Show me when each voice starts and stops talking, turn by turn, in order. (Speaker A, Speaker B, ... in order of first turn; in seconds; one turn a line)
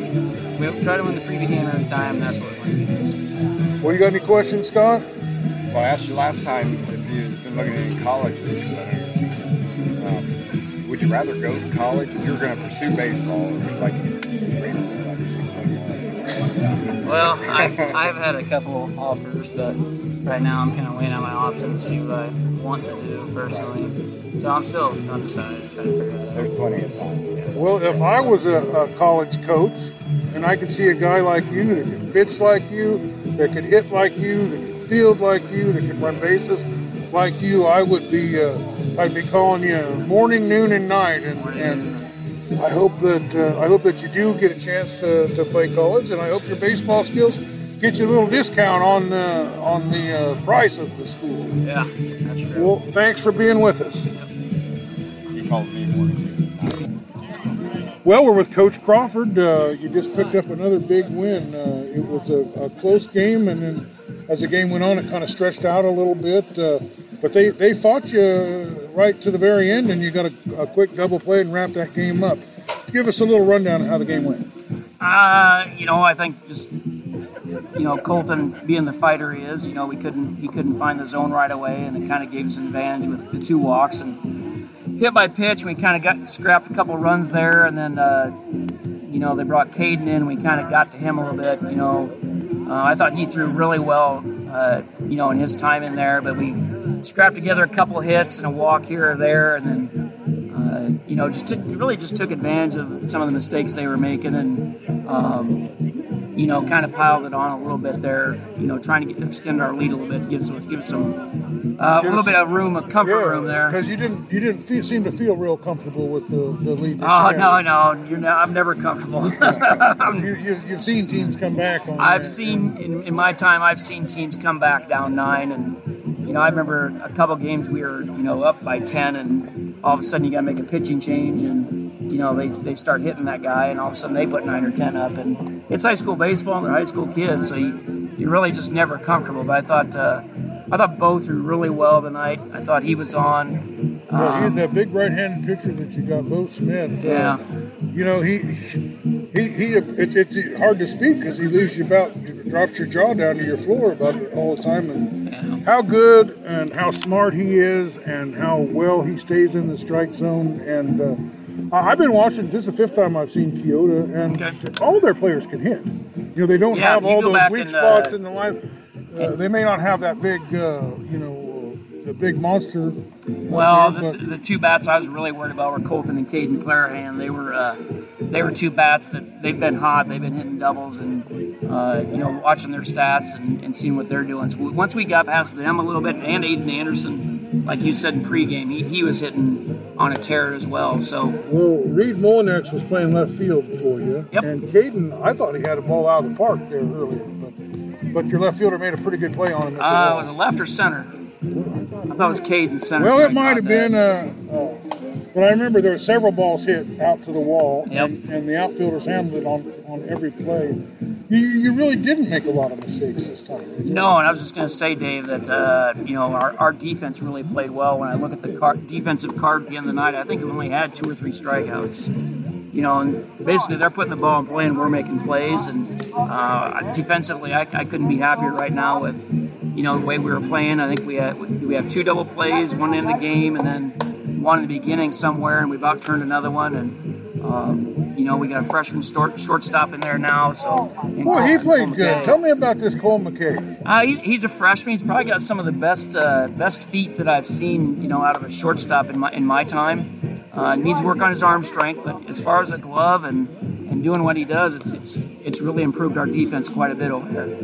Speaker A: 0.5-3.2
Speaker B: 3.8-5.0
Speaker C: 5.7-9.4
Speaker C: 10.0-18.0
Speaker A: 17.0-26.5
Speaker C: 23.5-23.8
Speaker C: 26.3-28.4
Speaker B: 27.6-51.6
Speaker A: 41.4-41.9
Speaker A: 51.6-52.8
Speaker B: 52.5-54.1
Speaker C: 55.3-56.9
Speaker B: 58.0-74.5
Speaker D: 75.0-76.8
Speaker D: 77.7-88.4
Speaker D: 89.0-105.7
Speaker D: 106.3-111.2
Speaker D: 111.7-113.8
Speaker B: 112.0-117.6
Speaker D: 117.0-120.3
Speaker B: 119.7-122.8
Speaker D: 122.0-144.6
Speaker B: 144.1-147.4
Speaker D: 147.0-147.4
Speaker B: 147.9-174.2
Speaker D: 155.2-155.7
Speaker D: 166.7-168.2
Speaker D: 173.5-191.4
Speaker B: 191.4-197.6
Speaker B: 198.1-200.3
Speaker D: 199.8-201.1
Speaker B: 201.5-202.4
Speaker D: 202.1-204.0
Speaker B: 203.0-213.9
Speaker D: 207.9-208.1
Speaker D: 213.8-222.1
Speaker D: 222.7-242.4
Speaker B: 241.2-243.7
Speaker D: 243.8-257.5